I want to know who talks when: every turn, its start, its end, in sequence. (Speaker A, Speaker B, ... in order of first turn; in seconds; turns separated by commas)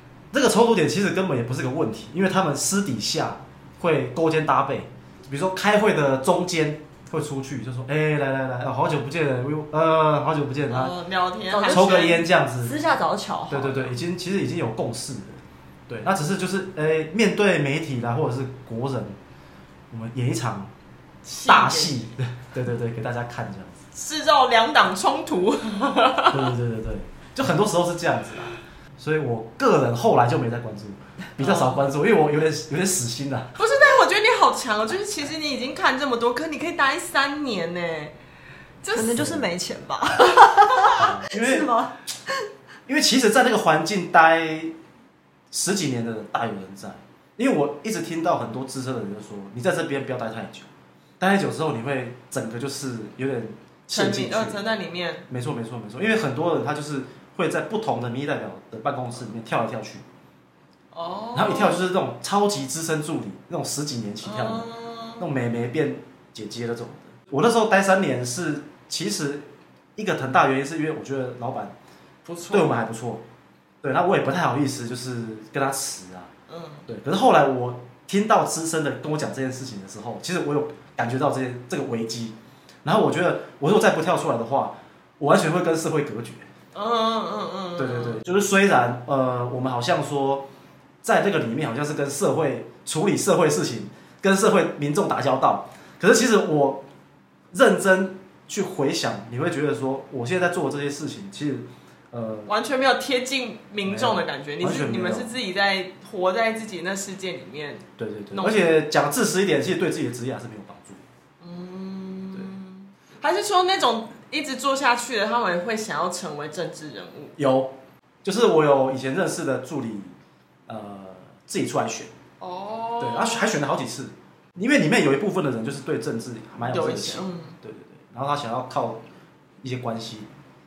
Speaker A: 0.3-10.9, Speaker B: 10.7-12.2, Speaker C: 11.5-13.9, Speaker A: 11.7-12.8, Speaker A: 13.5-19.1, Speaker A: 19.9-20.7, Speaker B: 21.2-22.1, Speaker A: 21.4-23.8, Speaker B: 23.9-26.5, Speaker A: 26.3-33.5, Speaker B: 31.4-31.8, Speaker B: 33.5-38.1, Speaker B: 38.8-39.2, Speaker C: 38.9-42.0, Speaker A: 39.1-39.5, Speaker B: 40.4-41.0, Speaker A: 40.9-41.7, Speaker A: 42.9-44.7, Speaker A: 45.5-50.7, Speaker A: 51.2-54.6, Speaker B: 53.9-55.2, Speaker A: 55.3-60.0, Speaker B: 60.9-61.8, Speaker A: 61.3-64.7, Speaker B: 64.2-65.2, Speaker A: 65.2-69.4, Speaker A: 70.0-71.7, Speaker B: 72.2-72.8, Speaker A: 72.5-73.2, Speaker A: 73.8-76.3, Speaker B: 76.5-76.8, Speaker A: 76.9-86.5, Speaker B: 86.7-88.2, Speaker A: 87.8-90.5, Speaker A: 91.0-96.8, Speaker A: 97.5-102.5, Speaker B: 102.5-108.7, Speaker A: 103.8-105.3, Speaker A: 108.0-111.0, Speaker B: 111.4-117.3, Speaker A: 117.4-120.1, Speaker A: 120.7-122.1, Speaker B: 122.4-123.5, Speaker A: 123.0-129.0, Speaker B: 126.7-127.5, Speaker A: 129.6-130.3